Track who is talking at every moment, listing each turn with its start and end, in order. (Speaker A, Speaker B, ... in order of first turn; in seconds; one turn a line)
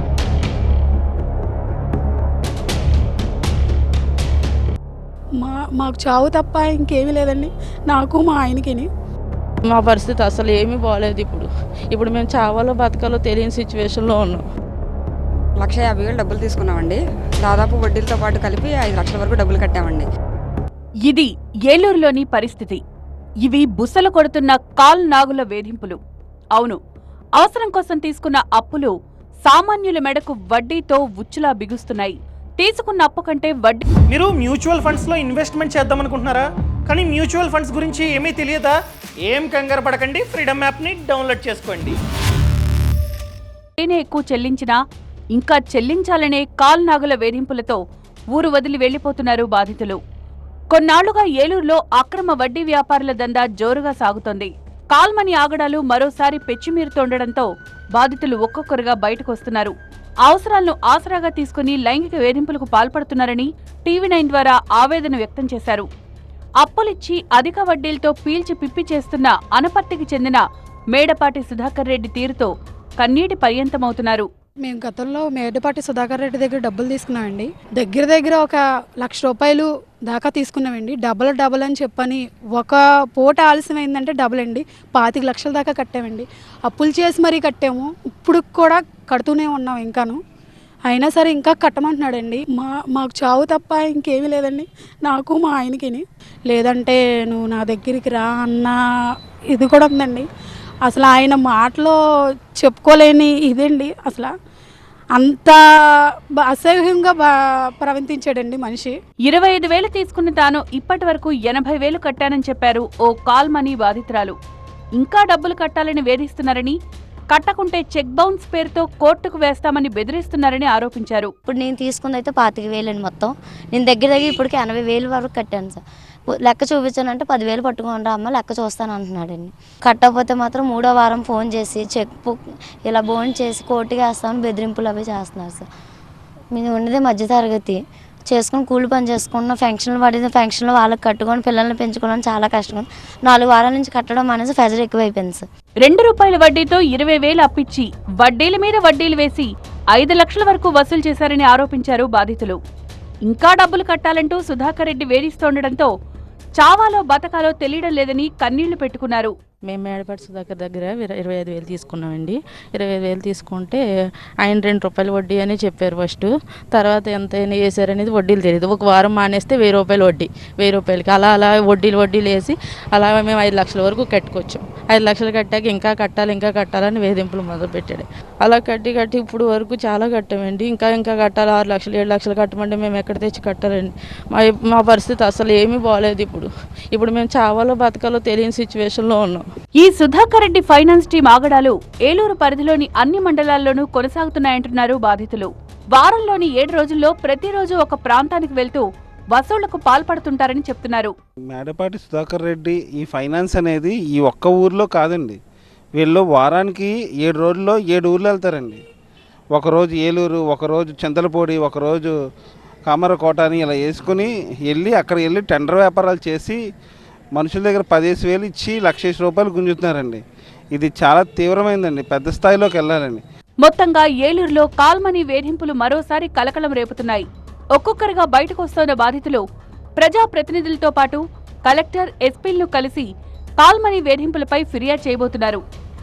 Speaker A: 5.4-8.9
Speaker B: 9.7-14.4
Speaker C: 15.6-20.0
Speaker D: 21.1-22.8
Speaker D: 23.5-26.0
Speaker D: 27.4-28.9
Speaker D: 29.5-33.8
Speaker E: 34.1-42.0
Speaker D: 43.8-44.8
Speaker D: 45.4-47.8
Speaker D: 48.3-50.0
Speaker D: 50.7-57.4
Speaker D: 58.0-59.7
Speaker D: 60.3-65.8
Speaker D: 66.6-70.4
Speaker D: 70.9-72.5
Speaker D: 73.0-74.2
Speaker A: 74.6-90.2
Speaker A: 90.9-98.8
Speaker A: 99.5-100.2
Speaker A: 100.8-102.0
Speaker A: 102.6-104.3
Speaker A: 105.2-105.6
Speaker A: 106.4-107.3
Speaker A: 107.8-108.9
Speaker D: 109.3-114.3
Speaker D: 115.0-116.7
Speaker D: 117.3-121.3
Speaker F: 121.5-135.7
Speaker F: 136.5-145.4
Speaker D: 145.8-152.6
Speaker D: 153.3-155.9
Speaker D: 156.6-159.3
Speaker B: 159.6-163.8
Speaker B: 164.4-189.5
Speaker D: 189.8-198.8
Speaker D: 199.4-201.1
Speaker G: 201.5-205.4
Speaker G: 205.9-208.8
Speaker G: 209.5-212.1
Speaker G: 212.9-216.6
Speaker G: 217.3-220.2
Speaker G: 220.7-223.2
Speaker D: 223.7-227.2
Speaker D: 227.8-229.4
Speaker D: 230.0-233.0
Speaker D: 233.6-235.6